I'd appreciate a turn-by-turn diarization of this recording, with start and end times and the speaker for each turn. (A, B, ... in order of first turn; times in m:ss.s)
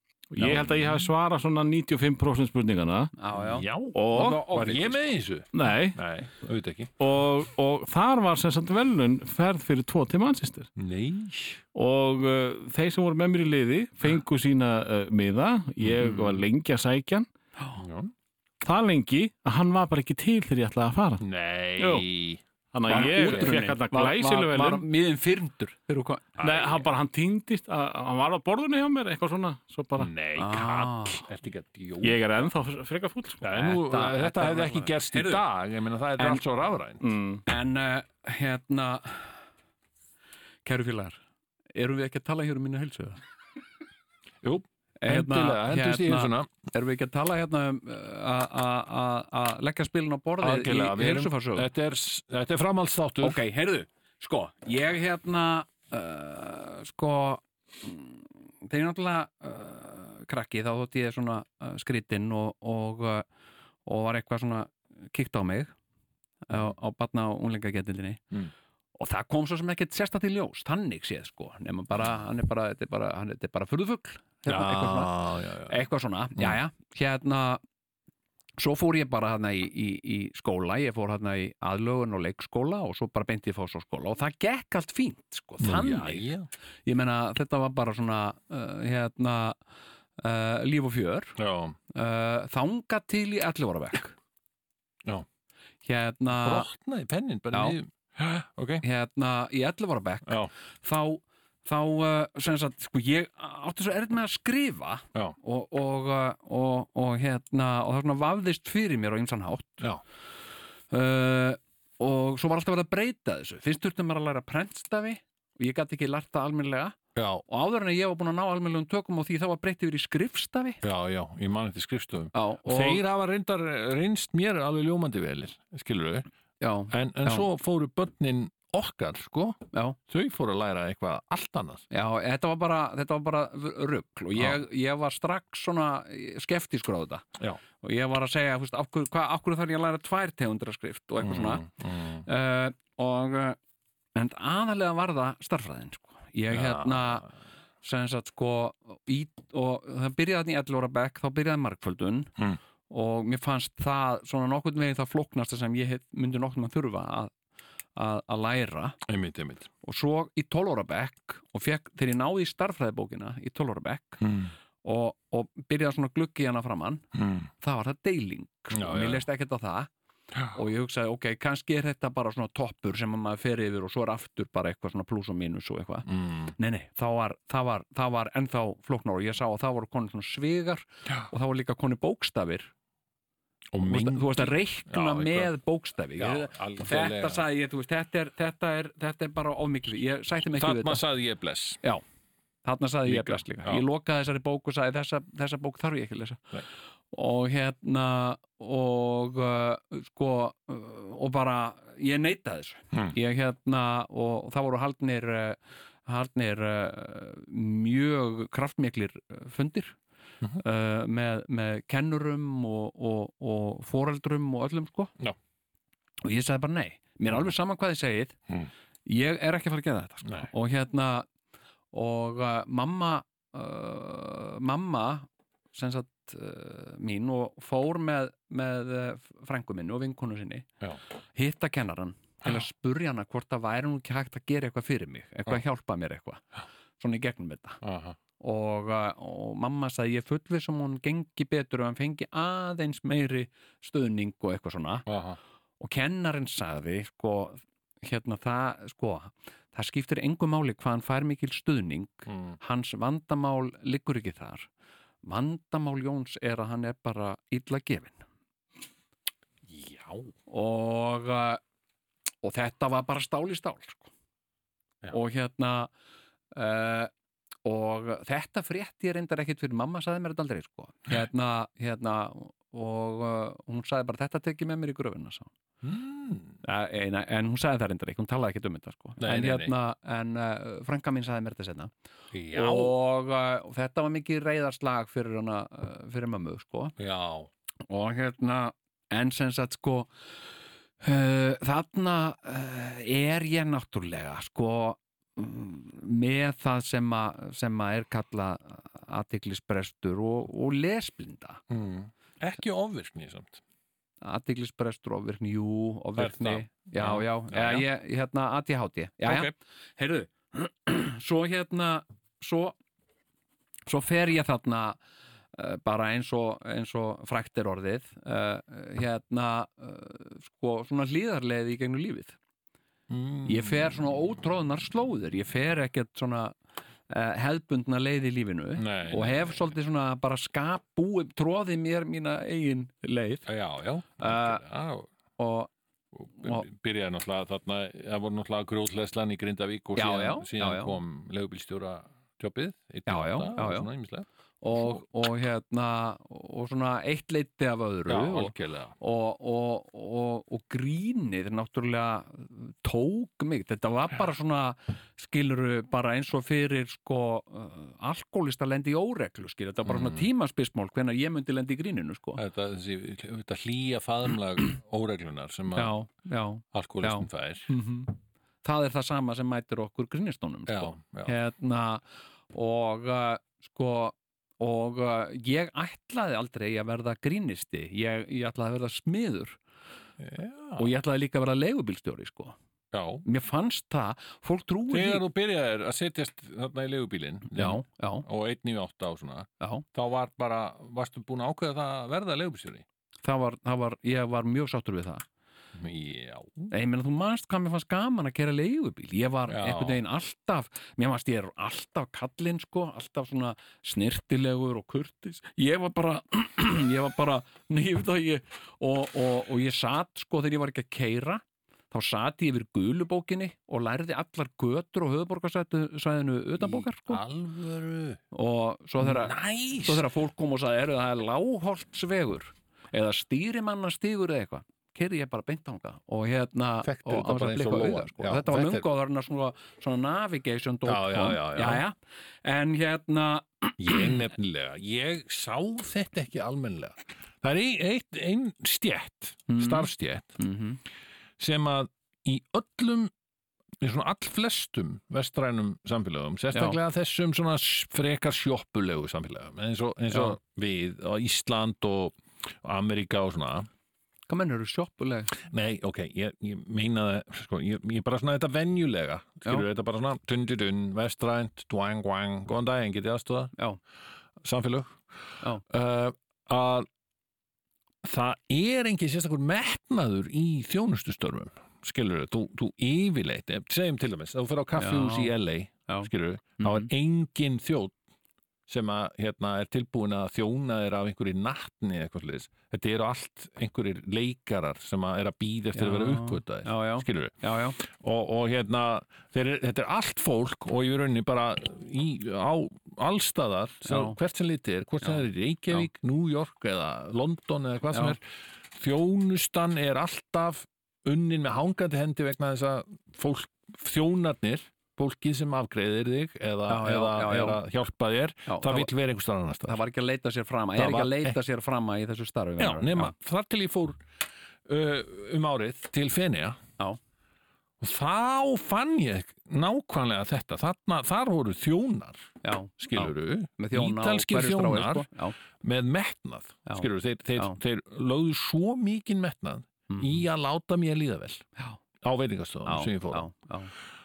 0:00.3-0:03.1 A
0:00.4-0:01.1 B
0:03.2-0:05.0 C
0:03.3-0:06.9 B
0:04.0-0:04.6 A
0:05.5-0:06.0 A
0:07.0-0:10.7 A
0:10.8-0:11.6 B
0:11.7-0:17.3 A
0:17.8-0:18.1 B
0:18.6-0:21.2 A
0:21.2-0:23.6 B
0:21.8-0:22.0 A
0:22.7-0:24.8 A
0:22.9-0:26.8 C
0:26.4-0:30.1 A
0:30.0-0:32.2 B
0:30.4-0:31.2 C
0:32.0-0:33.4 A
0:33.4-0:37.0 B
0:33.5-0:35.4 C
0:37.0-0:37.4 A
0:37.5-0:39.4 C
0:40.6-0:41.2 C
0:41.7-0:43.2 C
0:44.4-0:46.5 B
0:45.0-0:51.7 C
0:50.4-0:53.4 B
0:53.2-1:03.3 C
1:03.8-1:05.7 C
1:06.5-1:08.2 C
1:09.0-1:17.6 C
1:14.4-1:15.8 B
1:18.6-1:26.3 C
1:25.6-1:26.5 B
1:26.8-1:29.6 C
1:30.2-1:31.4 C
1:31.4-1:31.8 B
1:31.9-1:34.2 C
1:35.8-1:36.7 C
1:36.4-1:38.8 B
1:37.5-1:37.8 C
1:38.8-1:49.8 C
1:50.9-2:00.8 C
1:57.1-1:57.4 B
2:00.8-2:06.3 B
2:02.3-2:03.0 C
2:06.6-2:07.4 C
2:06.9-2:11.8 B
2:09.7-2:10.0 C
2:11.9-2:17.2 C
2:17.8-2:23.6 C
2:21.2-2:22.2 B
2:24.1-2:27.3 C
2:26.5-2:27.3 B
2:27.8-2:32.3 C
2:32.9-2:37.3 C
2:38.0-2:39.0 C
2:39.1-2:39.7 B
2:39.8-2:44.2 C
2:44.2-2:44.5 B
2:44.8-2:47.0 C
2:47.1-2:47.5 B
2:47.6-2:49.9 C
2:48.7-2:49.2 B
2:50.3-2:50.6 B
2:50.5-3:02.7 C
2:56.0-2:56.5 B
3:03.7-3:05.5 B
3:03.8-3:11.0 C
3:06.2-3:07.4 B
3:10.6-3:11.8 B
3:12.6-3:16.6 C
3:13.0-3:13.8 B
3:17.1-3:30.0 C
3:30.6-3:35.1 C
3:36.2-3:38.4 C
3:39.0-3:41.3 C
3:40.2-3:40.5 B
3:41.9-3:50.7 C
3:51.3-3:56.4 C
3:57.0-3:57.8 C
3:57.8-3:58.2 B
3:58.4-4:05.1 C
4:05.1-4:05.4 B
4:05.8-4:14.7 C
4:12.3-4:12.6 B
4:15.2-4:18.2 C
4:19.7-4:20.3 B
4:20.5-4:21.6 C
4:22.4-4:24.1 C
4:25.1-4:25.9 C
4:26.5-4:27.1 C
4:27.6-4:35.5 C
4:35.8-4:36.6 B
4:36.6-4:41.9 C
4:39.2-4:39.7 B
4:42.3-4:43.0 B
4:42.5-4:47.0 C
4:47.0-4:47.5 B
4:47.9-4:50.1 C
4:51.0-5:01.6 C
5:01.7-5:03.6 B
5:04.2-5:12.8 C
5:06.2-5:07.8 B
5:09.2-5:09.5 B
5:13.9-5:15.0 C
5:15.5-5:22.4 C
5:23.1-5:24.0 B
5:23.4-5:26.6 C
5:27.1-5:33.5 C
5:28.8-5:29.7 B
5:33.4-5:35.1 B
5:34.2-5:34.6 C
5:35.4-5:35.7 C
5:36.1-5:45.0 B
5:36.4-5:36.6 C
5:40.0-5:40.9 C
5:43.1-5:43.9 C
5:44.6-6:02.4 C
5:48.1-5:48.9 B
5:59.8-6:00.2 B
6:02.4-6:05.9 B
6:05.7-6:19.6 C
6:06.7-6:07.7 B
6:10.7-6:11.4 B
6:20.2-6:20.9 B
6:20.8-6:22.6 C
6:22.9-6:23.2 B
6:23.2-6:25.2 C
6:24.9-6:32.8 B
6:27.5-6:28.2 C
6:33.2-6:35.2 C
6:35.7-6:36.7 B
6:36.7-6:57.2 C
6:39.5-6:40.0 B
6:56.6-6:58.2 B
6:58.3-7:14.2 C
6:59.0-7:00.0 B
7:06.8-7:08.8 B
7:10.8-7:11.8 B
7:13.8-7:20.4 B
7:19.5-7:20.8 C
7:21.4-7:23.1 B
7:23.8-7:33.7 B
7:26.5-7:26.8 C
7:34.3-7:35.4 C
7:35.4-7:43.5 B
7:44.4-7:45.0 B
7:45.6-7:46.9 B
7:48.0-7:57.9 B
7:54.8-7:55.3 C
7:55.9-7:56.9 C
7:58.7-8:29.8 B
8:05.7-8:07.8 C
8:13.8-8:14.2 C
8:15.0-8:15.9 C
8:26.7-8:27.6 C
8:28.5-8:28.9 C
8:29.6-8:33.1 C
8:30.8-8:31.4 B
8:32.6-8:34.0 B
8:34.6-8:36.6 B
8:37.8-8:45.1 B
8:42.4-8:45.4 C
8:45.6-8:51.4 B
8:46.6-8:47.6 C
8:49.9-8:50.2 C
8:52.0-8:53.3 B
8:52.6-8:53.7 C